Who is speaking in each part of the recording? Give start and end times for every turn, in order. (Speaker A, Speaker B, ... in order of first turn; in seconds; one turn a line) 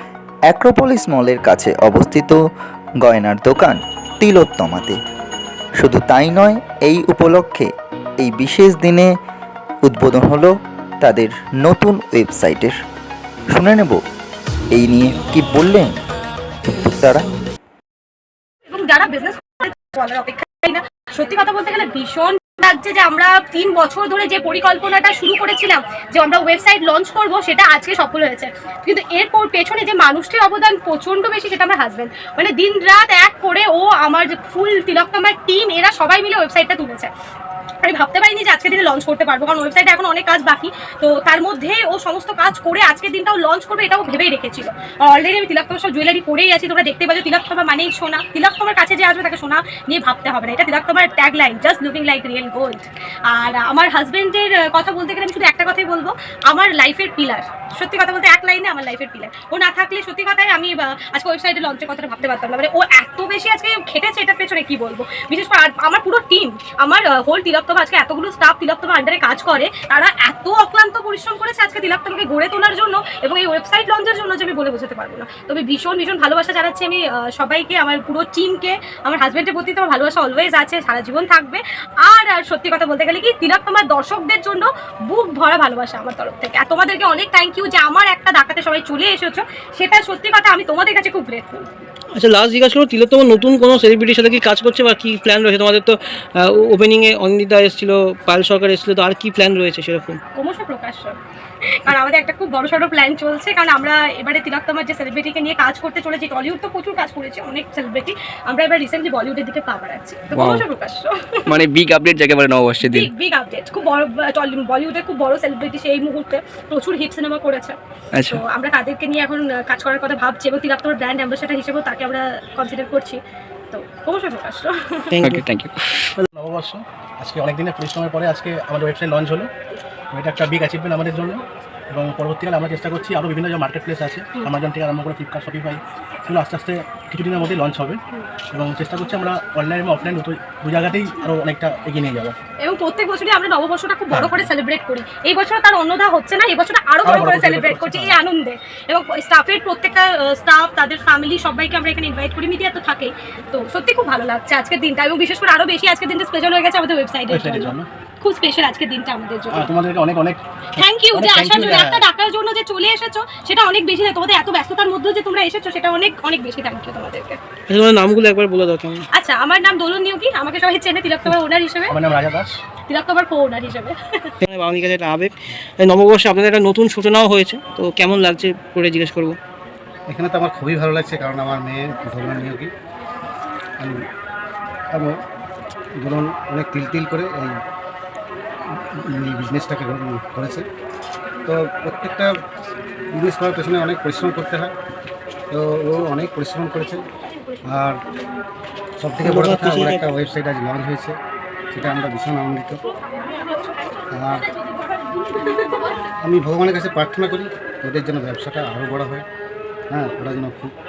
Speaker A: 0.5-2.4
Speaker A: 3.0-5.0
Speaker A: 5.8-7.7
Speaker A: 8.2-9.1
Speaker A: 9.8-12.8
Speaker A: 13.5-14.0
Speaker A: 14.7-16.0
Speaker A: 16.8-17.3
Speaker B: 18.7-37.1
Speaker B: 37.8-91.7
Speaker C: 92.2-100.2
Speaker B: 100.4-111.4
Speaker D: 110.3-110.7
Speaker D: 111.5-113.1
Speaker B: 112.8-125.2
Speaker D: 118.2-118.4
Speaker C: 125.2-125.4
Speaker D: 125.2-126.1
Speaker E: 126.2-129.5
Speaker E: 130.1-138.0
Speaker E: 138.5-142.3
Speaker B: 142.6-159.7
Speaker E: 144.1-144.4
Speaker E: 147.0-148.2
Speaker E: 157.3-157.9
Speaker E: 159.5-160.4
Speaker B: 160.8-167.4
Speaker E: 161.1-162.0
Speaker C: 167.7-169.1
Speaker B: 169.1-171.9
Speaker E: 171.9-172.6
Speaker B: 172.9-174.3
Speaker C: 174.4-179.4
Speaker F: 180.1-182.7
Speaker F: 184.9-185.2
Speaker F: 186.0-187.6
Speaker F: 188.7-190.7
Speaker F: 191.4-192.3
Speaker F: 193.1-194.7
Speaker F: 195.5-197.0
Speaker F: 197.7-198.0
Speaker F: 199.0-201.2
Speaker C: 199.2-200.0
Speaker F: 201.7-202.8
Speaker B: 203.1-203.9
Speaker F: 204.1-204.5
Speaker B: 204.7-206.0
Speaker F: 206.2-209.2
Speaker F: 209.9-210.8